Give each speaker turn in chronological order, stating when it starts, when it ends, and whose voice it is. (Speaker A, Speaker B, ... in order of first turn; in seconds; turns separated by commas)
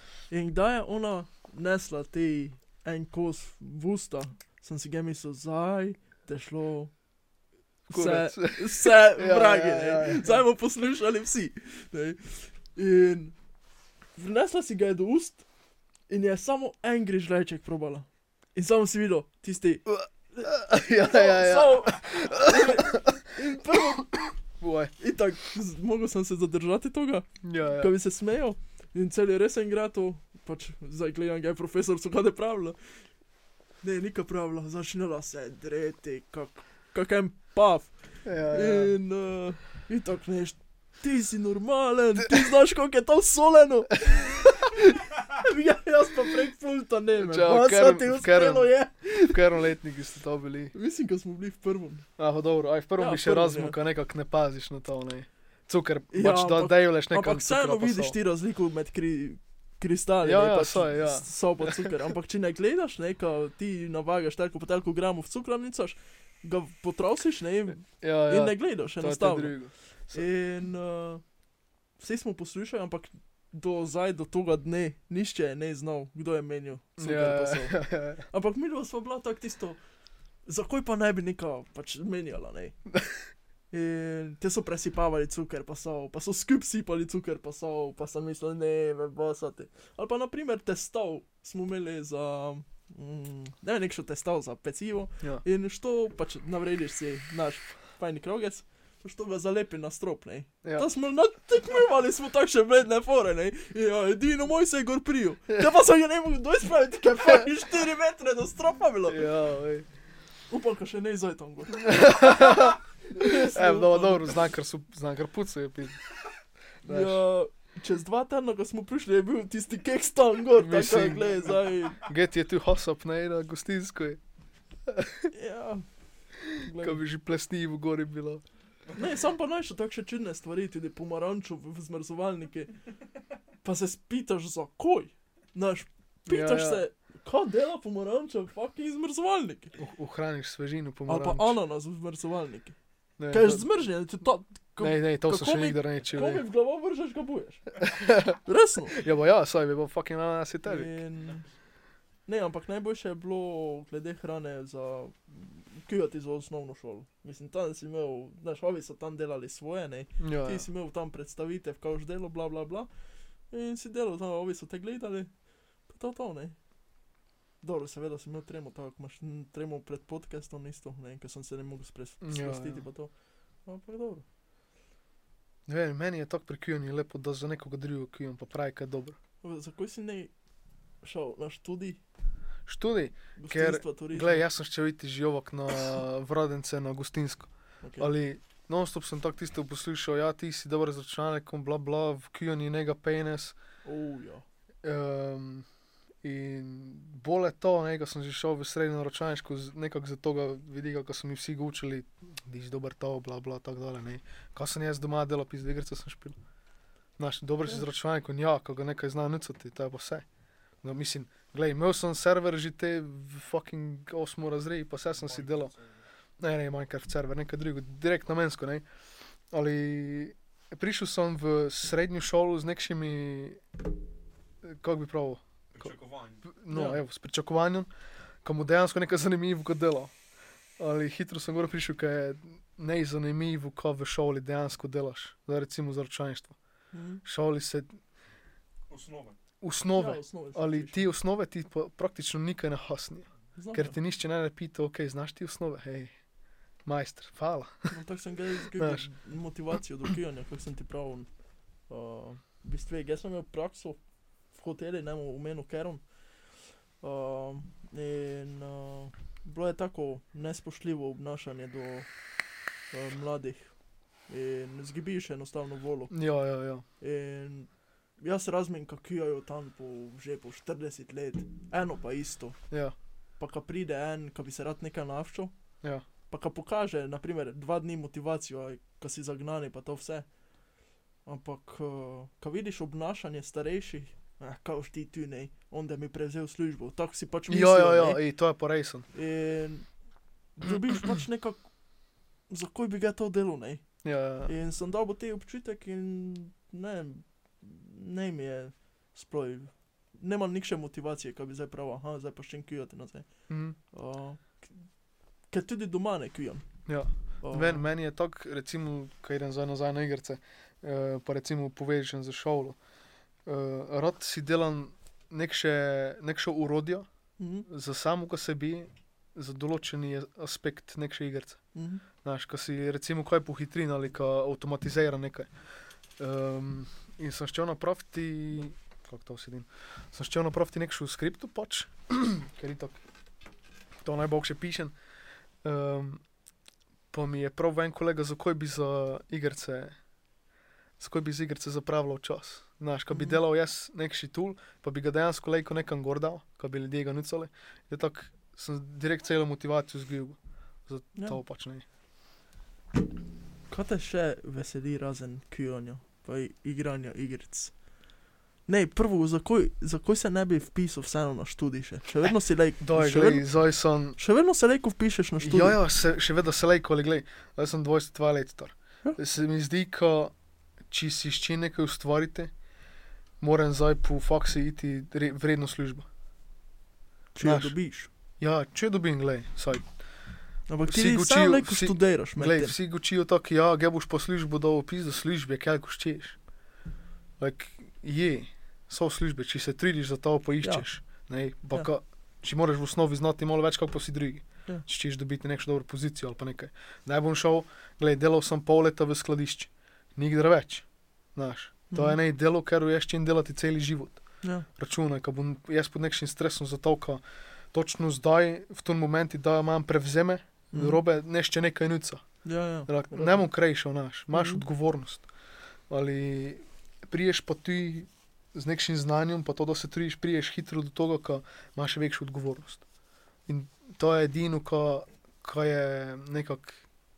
Speaker A: 0.3-6.9, Speaker A: 7.9-13.3, Speaker B: 7.9-10.4, Speaker A: 14.2-15.4, Speaker A: 16.1-24.3, Speaker B: 19.9-23.2, Speaker B: 24.6-24.9, Speaker A: 25.0-32.8, Speaker B: 27.4-27.9, Speaker A: 33.8-37.9, Speaker B: 38.2-39.0, Speaker A: 38.5-49.4, Speaker B: 47.1-48.7, Speaker B: 49.2-50.7, Speaker A: 50.7-52.1, Speaker B: 52.2-58.1, Speaker A: 53.0-53.8, Speaker A: 56.1-69.5, Speaker B: 60.2-61.9, Speaker B: 67.9-70.2, Speaker A: 70.1-71.2, Speaker A: 72.0-79.8, Speaker B: 77.0-78.2, Speaker A: 80.5-82.8, Speaker A: 83.7-109.2, Speaker B: 109.1-109.9, Speaker A: 110.5-114.3, Speaker B: 111.7-116.0, Speaker B: 116.8-117.2, Speaker A: 116.8-122.0, Speaker B: 120.6-124.2, Speaker B: 124.9-125.3, Speaker A: 125.3-125.8, Speaker B: 126.5-128.4, Speaker A: 126.5-127.0, Speaker A: 128.9-132.7, Speaker A: 133.6-139.8, Speaker B: 136.3-136.8, Speaker B: 139.8-141.6, Speaker A: 141.1-142.8, Speaker B: 143.2-143.7, Speaker A: 143.3-147.7, Speaker B: 144.8-146.4, Speaker B: 147.8-148.4, Speaker A: 148.4-149.0, Speaker B: 148.9-150.9, Speaker A: 150.6-151.4, Speaker A: 152.2-162.9, Speaker B: 160.2-160.7, Speaker A: 163.5-166.6, Speaker A: 167.6-173.1, Speaker B: 172.2-172.8, Speaker A: 173.6-174.2, Speaker B: 175.7-179.2, Speaker A: 179.4-180.3, Speaker A: 181.0-182.0, Speaker B: 182.7-193.6, Speaker A: 183.3-184.4, Speaker A: 187.8-188.1, Speaker A: 193.8-194.4, Speaker B: 194.8-195.7, Speaker B: 196.2-206.4, Speaker B: 207.2-210.2, Speaker B: 210.8-215.7, Speaker C: 215.2-215.9, Speaker B: 216.4-218.8, Speaker B: 219.5-223.6, Speaker B: 224.6-225.9, Speaker C: 225.8-226.4, Speaker B: 226.4-227.9, Speaker A: 226.7-227.0, Speaker B: 228.4-230.1, Speaker B: 230.8-236.6, Speaker A: 236.9-237.2, Speaker B: 237.2-237.9, Speaker C: 238.9-239.3, Speaker B: 239.6-246.2, Speaker A: 239.9-241.1, Speaker A: 243.6-243.9, Speaker B: 246.8-247.9, Speaker A: 247.9-251.3, Speaker B: 248.8-249.1, Speaker A: 251.9-254.0, Speaker A: 254.5-256.1, Speaker A: 257.0-262.1, Speaker A: 262.9-263.7, Speaker A: 264.3-266.1, Speaker B: 266.1-266.8, Speaker A: 267.0-272.6, Speaker A: 273.4-275.5, Speaker A: 276.3-280.3, Speaker A: 281.2-288.2, Speaker B: 287.5-289.1, Speaker A: 289.1-289.9, Speaker A: 290.6-291.6, Speaker A: 292.5-293.9, Speaker B: 294.0-294.5, Speaker A: 294.4-303.3, Speaker B: 303.5-303.8, Speaker A: 303.9-304.7, Speaker A: 305.5-306.6, Speaker B: 306.9-312.8, Speaker A: 307.4-307.9, Speaker B: 313.4-317.1, Speaker A: 317.4-317.6, Speaker B: 317.7-321.6, Speaker A: 321.7-322.0, Speaker B: 322.2-325.5, Speaker B: 326.2-333.0, Speaker B: 334.0-334.9, Speaker B: 335.6-336.2, Speaker B: 337.1-340.0, Speaker B: 341.0-351.8, Speaker A: 343.1-343.4, Speaker A: 353.7-357.8, Speaker A: 358.7-363.5, Speaker B: 362.8-364.2, Speaker A: 364.1-365.8, Speaker B: 365.4-370.3, Speaker B: 370.9-372.5, Speaker B: 373.4-376.0, Speaker A: 377.3-378.1, Speaker B: 377.4-377.7, Speaker B: 378.4-379.9, Speaker A: 380.7-382.8, Speaker B: 380.9-386.4, Speaker B: 387.4-404.2, Speaker A: 401.9-402.2, Speaker A: 404.4-404.7, Speaker B: 404.8-407.2, Speaker B: 407.7-412.2, Speaker A: 410.7-411.0, Speaker A: 412.4-413.4, Speaker B: 412.9-415.2, Speaker A: 414.3-414.6, Speaker B: 415.9-422.8, Speaker B: 423.5-426.8